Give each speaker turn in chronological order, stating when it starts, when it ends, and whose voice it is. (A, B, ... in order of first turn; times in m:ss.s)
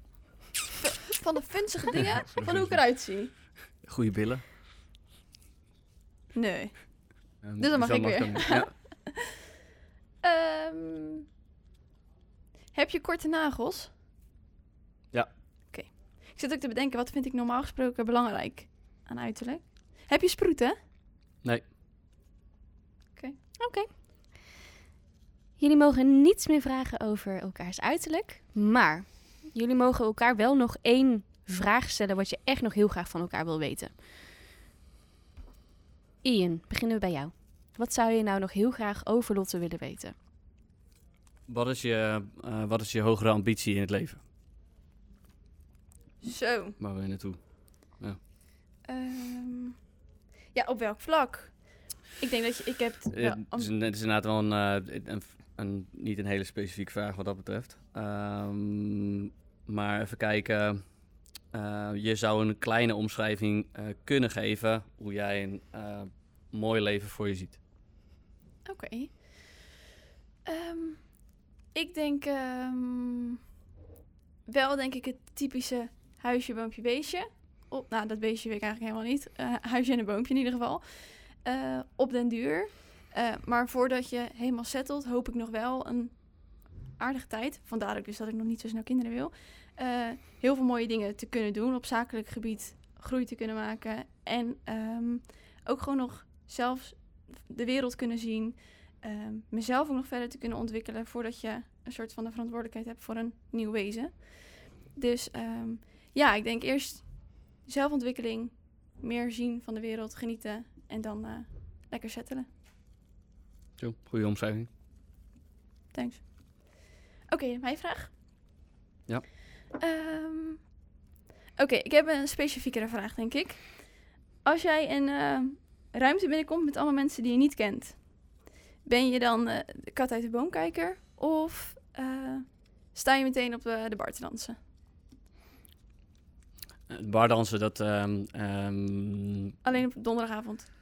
0:00.8-0:03.3 A
0:01.9-0:02.8 B
0:03.8-0:04.4 B
0:06.3-0:09.1 A
0:07.4-0:08.8 B
0:10.2-0:11.2 A
0:12.7-0:13.9 A
0:15.7-0:20.8 A
0:23.6-0:23.9 C
0:25.6-0:33.9 C
0:36.2-0:40.1 C
0:41.5-0:44.2 B
0:46.2-0:46.8 A
0:46.8-0:48.2 B
0:48.8-0:49.8 A
0:50.5-0:53.7 A
0:53.1-1:00.8 B
1:01.5-1:07.6 B
1:08.7-1:09.7 A
1:10.4-1:13.4 A
1:14.5-1:52.5 A
1:53.8-1:54.7 B
1:55.9-1:58.1 A
1:59.7-2:00.8 A
2:01.6-2:14.6 A
2:16.9-2:19.5 B
2:19.6-2:20.7 A